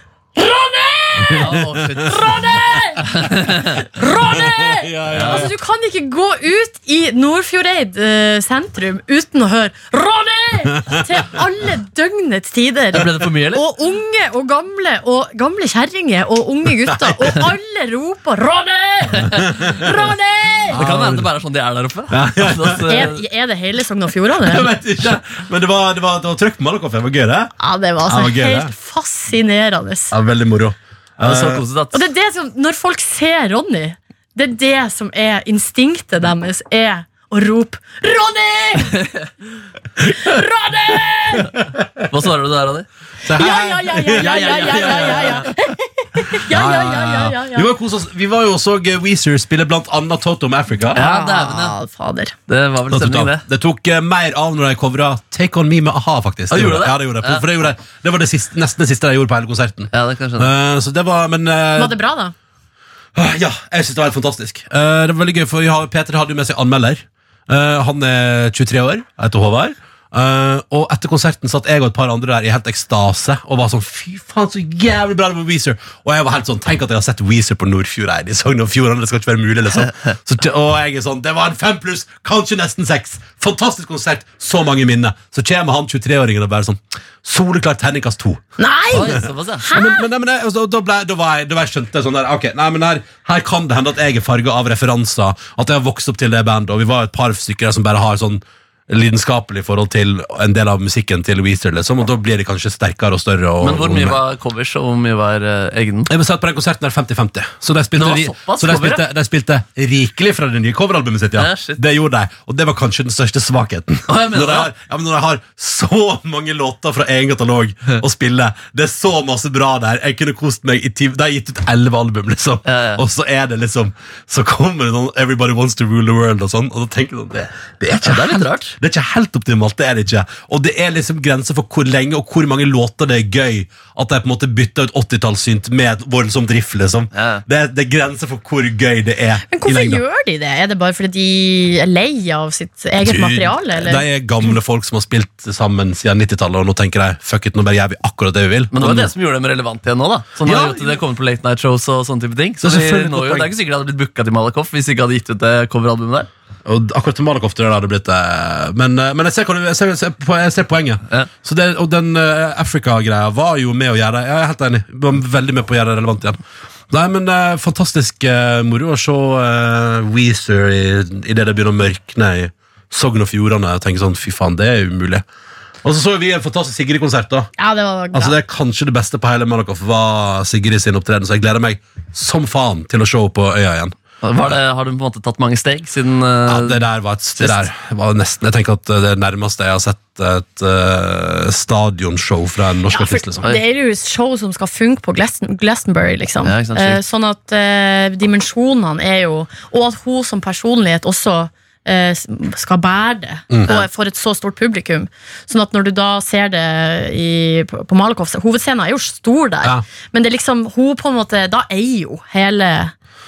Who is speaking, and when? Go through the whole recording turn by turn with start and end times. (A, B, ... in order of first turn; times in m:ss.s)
0:00.3-0:20.8 A
0:01.3-0:01.8 B
0:01.4-0:02.3 C
0:03.0-0:03.8 C
0:04.2-0:05.5 B
0:05.1-0:05.5 C
0:12.9-0:13.6 C
0:16.9-0:17.3 B
0:19.3-0:19.8 B
0:20.7-0:23.2 C
0:20.7-0:21.3 B
0:22.1-0:23.0 B
0:22.8-0:24.7 A
0:24.4-0:27.5 B
0:27.6-0:30.1 A
0:28.0-0:28.7 B
0:30.1-0:31.6 B
0:31.2-0:32.0 C
0:31.9-0:39.1 A
0:40.1-0:41.5 A
0:41.5-0:42.0 B
0:42.0-0:42.8 C
0:43.2-0:45.4 B
0:43.4-0:47.7 A
0:44.1-0:45.5 C
0:46.5-0:51.0 B
0:50.9-0:52.3 A
0:50.9-0:51.8 C
0:52.5-0:53.4 C
0:52.9-1:02.0 B
0:56.5-0:57.4 C
0:59.9-1:00.5 C
1:01.8-1:02.3 A
1:03.1-1:28.4 B
1:28.6-1:30.1 A
1:28.9-1:29.6 C
1:29.0-1:44.2 B
1:43.6-1:46.1 C
1:46.1-2:20.0 B
1:48.0-1:49.0 C
1:51.4-1:51.8 C
1:54.1-1:54.7 C
2:02.6-2:03.0 C
2:07.9-2:08.7 C
2:17.1-2:17.4 C
2:19.5-2:24.0 A
2:23.0-2:29.1 B
2:28.7-2:36.3 C
2:30.4-2:30.9 B
2:32.6-2:33.5 B
2:36.6-2:46.4 B
2:46.9-2:55.2 B
2:55.8-2:57.5 B
2:57.6-2:58.3 A
2:58.1-3:04.0 B
3:04.2-3:06.8 C
3:06.4-3:13.5 B
3:12.9-3:32.9 A
3:16.4-3:17.0 C